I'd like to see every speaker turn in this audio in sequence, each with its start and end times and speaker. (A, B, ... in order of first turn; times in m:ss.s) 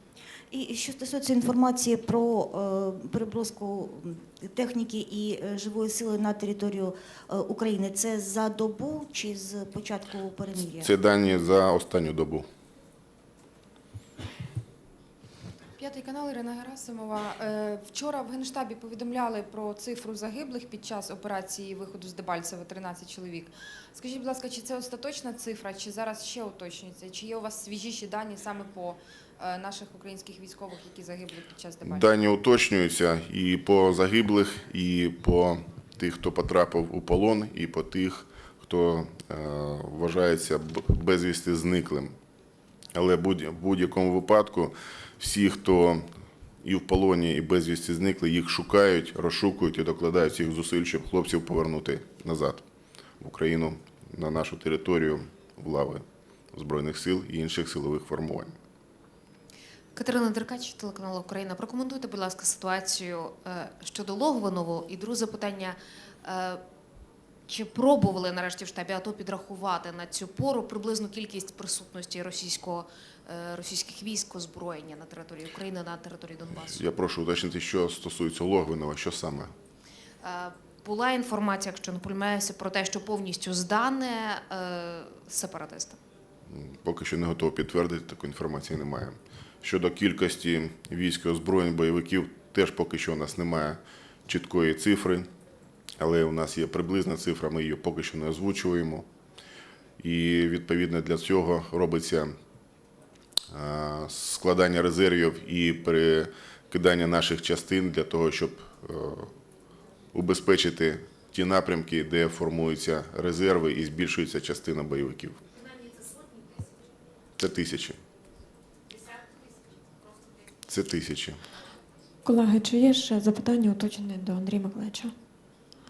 0:00.5-0:10.9 A
0:10.8-0:12.4 B
0:15.8-0:32.1 C
0:31.8-0:42.1 B
0:42.9-0:46.1 B
0:46.6-0:52.6 B
0:53.2-0:58.5 B
1:00.0-1:06.6 D
1:07.5-1:16.8 D
1:16.5-1:19.5 B
1:20.2-1:26.0 D
1:26.5-1:35.3 B
1:36.0-1:39.1 B
1:40.0-1:42.4 B
1:43.5-1:49.3 B
1:50.1-1:55.4 B
1:57.4-1:58.0 B
2:00.7-2:01.4 B
2:02.2-2:05.1 E